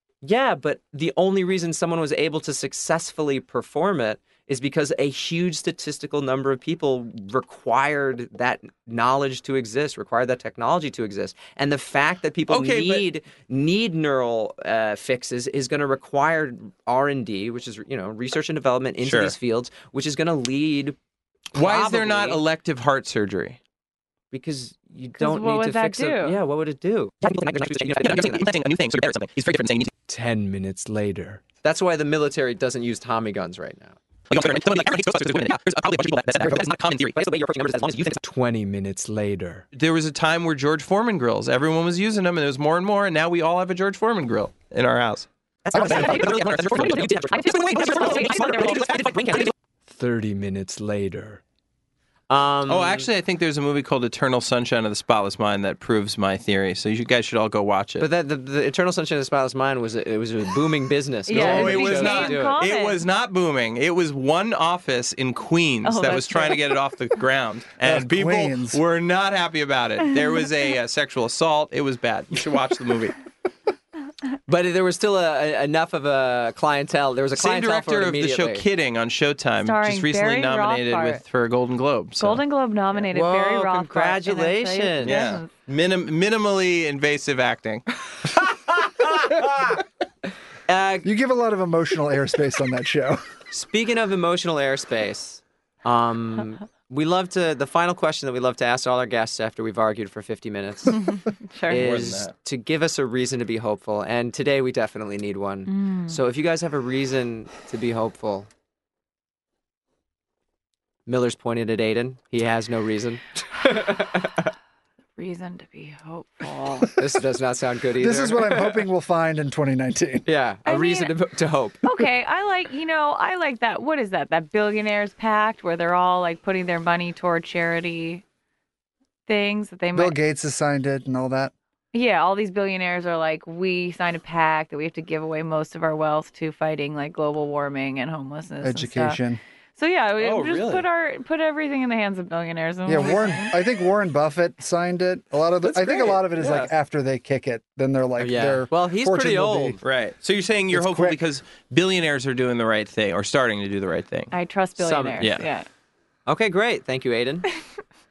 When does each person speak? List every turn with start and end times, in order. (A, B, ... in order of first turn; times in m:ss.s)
0:00.2-0:21.0 A
0:12.5-0:13.0 B
0:19.0-0:19.3 B
0:21.5-0:22.4 A
0:21.5-0:23.6 B
0:24.3-0:28.4 A
0:25.2-0:26.4 C
0:27.7-0:29.9 B
0:30.1-0:34.0 A
0:34.3-0:38.2 B
0:38.0-0:39.6 A
0:39.7-0:49.5 B
0:45.6-0:51.4 A
0:52.3-0:53.1 A
0:52.7-0:58.1 B
0:58.0-1:02.6 A
1:01.3-1:03.0 C
1:01.3-1:13.1 B
1:05.8-1:06.8 C
1:07.8-1:08.8 D
1:14.5-1:18.6 A
1:17.3-1:22.4 B
1:19.6-1:21.2 C
1:22.2-1:25.5 C
1:22.9-1:25.2 A
1:25.0-1:27.9 B
1:30.7-1:31.1 A
1:31.0-1:33.2 D
1:33.5-1:41.1 A
1:40.9-1:42.0 C
1:41.7-1:48.5 A
1:41.7-1:42.3 B
1:45.7-1:46.2 C
1:51.0-1:54.5 A
1:55.2-1:57.0 C
1:57.0-1:58.8 A
1:58.0-2:00.2 D
2:00.2-2:01.8 A
2:00.6-2:01.1 C
2:01.8-2:08.2 C
2:09.3-2:10.2 C
2:09.9-2:11.5 D
2:11.9-2:19.2 C
2:18.6-2:19.4 D
2:19.8-2:23.5 C
2:20.2-2:20.8 B
2:22.8-2:29.8 D
2:25.8-2:26.6 A
2:25.9-2:26.7 B
2:28.2-2:29.8 A
2:29.8-2:34.3 B
2:30.7-2:31.2 D
2:34.3-2:35.7 C
2:34.8-2:35.3 A
2:35.2-2:35.5 B
2:36.3-2:37.4 A